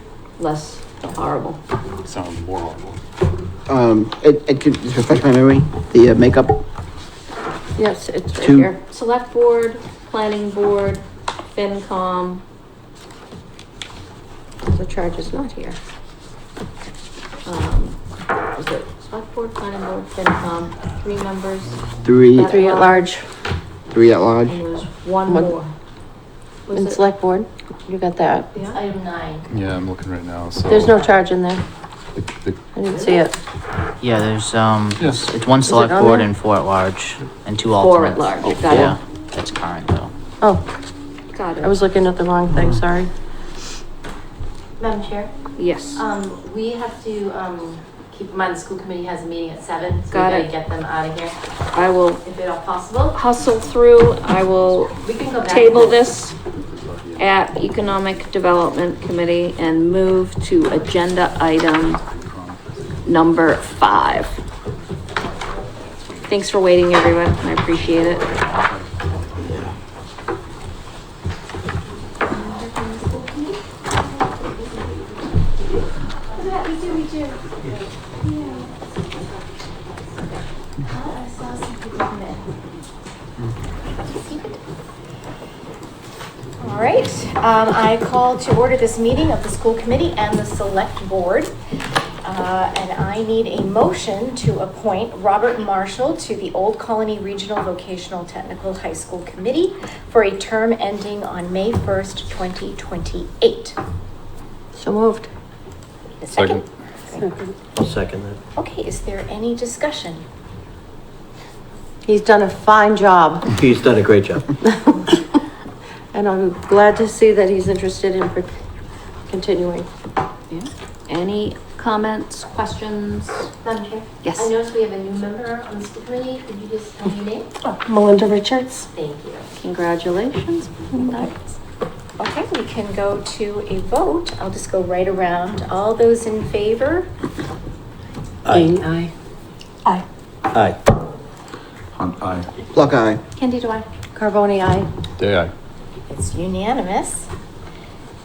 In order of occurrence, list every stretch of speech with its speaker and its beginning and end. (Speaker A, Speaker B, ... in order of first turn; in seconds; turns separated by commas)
Speaker A: 0.4-1.6, Speaker B: 2.0-3.0, Speaker C: 3.7-6.6, Speaker D: 7.8-8.8, Speaker C: 8.4-8.7, Speaker A: 8.9-11.0, Speaker A: 11.5-12.4, Speaker D: 14.6-15.8, Speaker A: 17.5-18.0, Speaker A: 18.5-23.1, Speaker C: 22.1-22.4, Speaker D: 22.4-23.2, Speaker C: 23.9-24.6, Speaker A: 24.4-25.7, Speaker D: 25.3-25.6, Speaker A: 26.7-27.0, Speaker D: 26.7-28.5, Speaker E: 28.6-29.4, Speaker B: 29.5-31.0, Speaker D: 30.7-31.6, Speaker B: 32.2-32.6, Speaker D: 32.8-33.4, Speaker F: 34.0-40.1, Speaker B: 35.0-35.2, Speaker D: 35.6-36.3, Speaker A: 37.7-39.0, Speaker A: 41.3-41.8, Speaker D: 41.6-43.1, Speaker E: 44.8-45.3, Speaker A: 45.6-46.0, Speaker E: 46.0-51.4, Speaker A: 50.1-50.5, Speaker A: 51.7-52.2, Speaker E: 52.2-53.2, Speaker A: 53.1-56.4, Speaker B: 53.4-58.8, Speaker E: 55.0-56.0, Speaker A: 57.2-62.0, Speaker B: 61.5-64.0, Speaker A: 63.0-64.4, Speaker B: 65.5-66.5, Speaker A: 66.3-68.3, Speaker B: 67.5-69.6, Speaker A: 72.3-73.3, Speaker G: 76.4-77.1, Speaker G: 80.9-82.3, Speaker G: 84.0-84.6, Speaker G: 86.6-91.5, Speaker G: 92.2-103.8, Speaker D: 104.8-105.3, Speaker G: 106.2-107.3, Speaker B: 106.3-106.6, Speaker H: 107.8-108.4, Speaker G: 108.6-110.2, Speaker D: 112.1-113.5, Speaker H: 113.5-114.5, Speaker D: 114.6-115.4, Speaker D: 116.1-118.5, Speaker D: 119.3-119.9, Speaker A: 120.5-123.5, Speaker E: 123.6-127.5, Speaker A: 124.2-124.5, Speaker E: 128.9-129.4, Speaker A: 129.6-131.3, Speaker G: 132.2-137.1, Speaker H: 138.4-138.9, Speaker E: 138.5-139.1, Speaker H: 140.5-140.8, Speaker B: 141.9-142.5, Speaker C: 142.7-143.2, Speaker D: 144.2-144.9, Speaker B: 145.2-145.5, Speaker G: 146.1-147.3